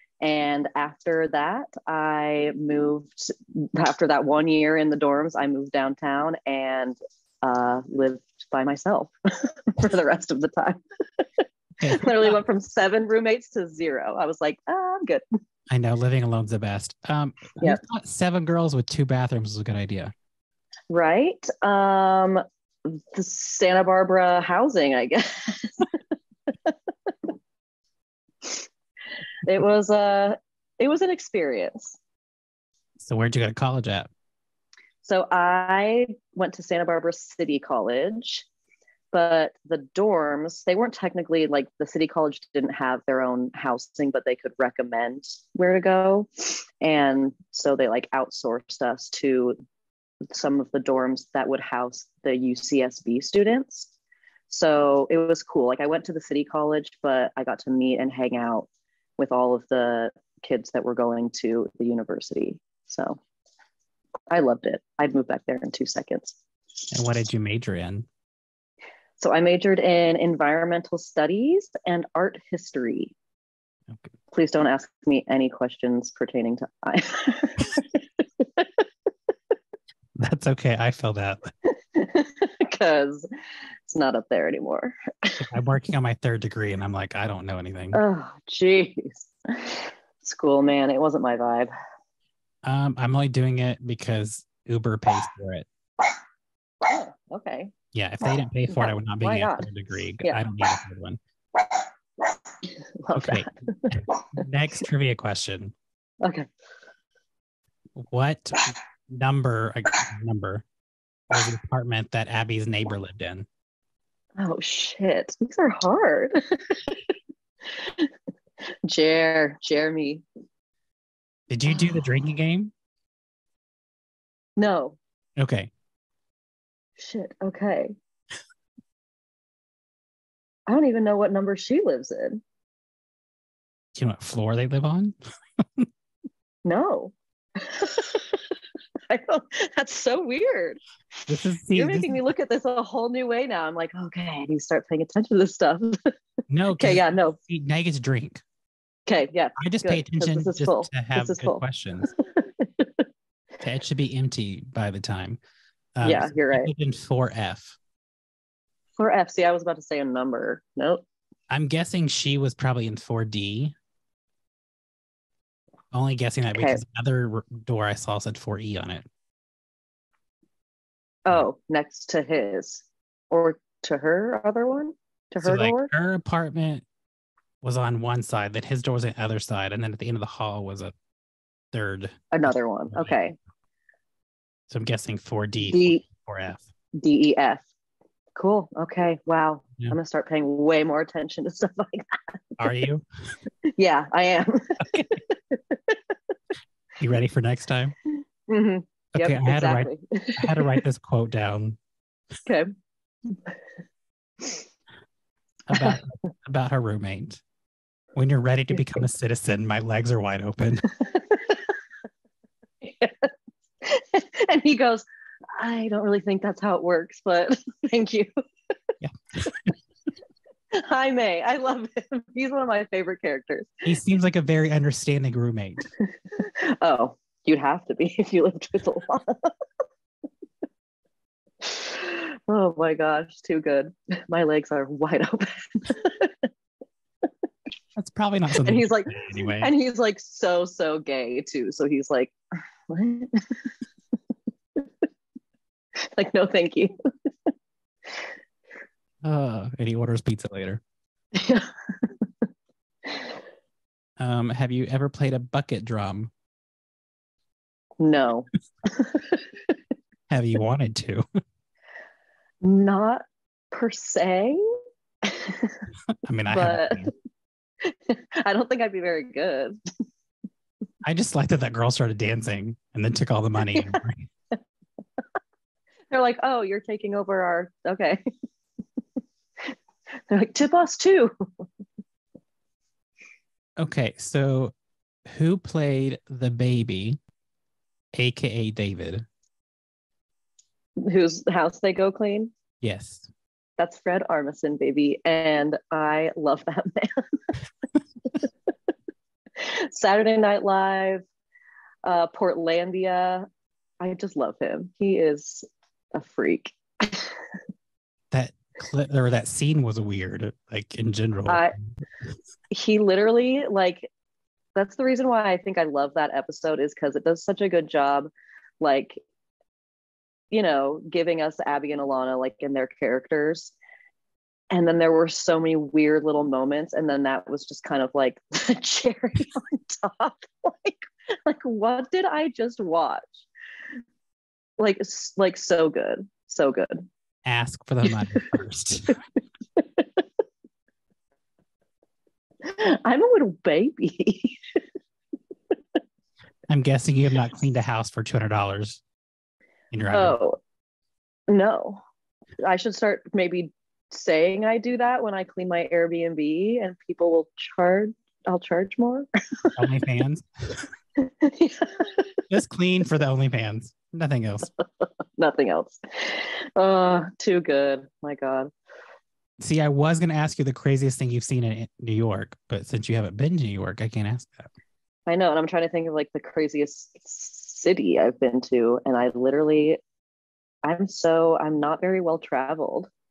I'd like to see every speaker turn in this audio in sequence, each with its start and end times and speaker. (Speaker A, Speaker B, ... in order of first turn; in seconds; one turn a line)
Speaker A: 0.2-15.2
Speaker B: 11.8-12.4
Speaker B: 15.7-20.1
Speaker A: 20.9-25.9
Speaker A: 26.5-27.1
Speaker A: 29.4-32.0
Speaker B: 33.0-34.1
Speaker A: 35.0-38.5
Speaker A: 39.1-49.6
Speaker A: 50.3-53.9
Speaker A: 54.5-63.2
Speaker A: 64.3-66.4
Speaker B: 66.9-68.1
Speaker A: 69.2-73.1
Speaker A: 74.3-78.8
Speaker B: 80.2-81.5
Speaker A: 81.7-83.3
Speaker A: 83.9-85.5
Speaker B: 85.4-88.0
Speaker A: 87.9-91.7
Speaker B: 92.6-95.7
Speaker A: 96.8-97.7
Speaker B: 97.9-101.2
Speaker A: 98.7-99.7
Speaker A: 102.6-104.4
Speaker B: 103.1-105.7
Speaker A: 106.2-106.5
Speaker B: 108.0-110.6
Speaker B: 111.3-113.5
Speaker A: 114.4-117.1
Speaker A: 117.7-118.1
Speaker A: 118.8-120.2
Speaker B: 121.5-122.7
Speaker A: 124.6-125.0
Speaker B: 125.4-125.7
Speaker A: 127.0-127.9
Speaker A: 130.7-132.4
Speaker B: 133.9-135.9
Speaker A: 136.6-138.5
Speaker A: 139.1-140.8
Speaker B: 141.3-142.2
Speaker A: 141.7-146.1
Speaker B: 146.5-148.4
Speaker A: 146.8-147.4
Speaker A: 149.1-153.1
Speaker B: 149.6-152.1
Speaker B: 153.6-155.4
Speaker B: 155.9-157.8
Speaker A: 156.0-156.7
Speaker A: 159.0-161.0
Speaker B: 161.5-163.7
Speaker B: 165.9-169.1
Speaker A: 166.5-166.8
Speaker A: 171.2-175.9
Speaker B: 175.4-176.8
Speaker B: 177.6-180.9
Speaker B: 181.7-182.3
Speaker A: 182.3-183.3
Speaker B: 182.9-183.2
Speaker B: 184.7-186.7
Speaker A: 185.6-186.1
Speaker A: 186.9-187.6
Speaker A: 188.3-192.6
Speaker B: 192.6-193.0
Speaker A: 193.6-196.1
Speaker B: 197.0-197.9
Speaker A: 198.5-200.8
Speaker B: 199.1-201.8
Speaker B: 205.7-207.4
Speaker A: 205.7-206.0
Speaker B: 208.1-210.9
Speaker A: 211.0-211.7
Speaker A: 212.8-213.3
Speaker A: 213.8-218.4
Speaker B: 219.0-219.7
Speaker A: 220.7-223.8
Speaker B: 223.8-225.9
Speaker A: 226.3-229.5
Speaker A: 231.6-236.3
Speaker B: 237.9-239.7
Speaker A: 238.6-242.3
Speaker A: 242.9-243.7
Speaker A: 246.2-246.9
Speaker B: 249.2-250.8
Speaker A: 251.3-252.1
Speaker B: 254.2-256.3
Speaker A: 258.0-259.7
Speaker B: 260.3-261.2
Speaker A: 262.6-265.8
Speaker B: 266.2-267.1
Speaker A: 266.5-267.1
Speaker A: 267.8-269.8
Speaker B: 271.0-274.3
Speaker A: 276.1-278.2
Speaker A: 280.3-281.3
Speaker B: 283.8-284.7
Speaker B: 285.2-287.2
Speaker B: 288.1-289.2
Speaker A: 291.0-292.5
Speaker B: 292.8-293.3
Speaker A: 293.8-297.5
Speaker A: 299.6-301.2
Speaker A: 302.0-303.5
Speaker A: 304.0-307.4
Speaker B: 308.3-312.0
Speaker A: 311.5-311.7
Speaker A: 312.7-314.1
Speaker A: 314.7-318.3
Speaker A: 318.8-319.2
Speaker A: 320.5-323.7
Speaker A: 324.7-333.4
Speaker A: 334.8-337.1
Speaker B: 337.4-339.2
Speaker A: 339.8-340.2
Speaker A: 342.6-344.6
Speaker B: 346.7-349.0
Speaker B: 349.9-350.4
Speaker A: 350.1-350.6
Speaker A: 351.5-352.0
Speaker A: 352.6-359.8
Speaker B: 359.8-360.9
Speaker A: 361.2-362.4
Speaker B: 362.5-364.7
Speaker A: 364.8-368.7
Speaker B: 369.6-374.7
Speaker A: 375.3-380.0
Speaker A: 380.8-383.1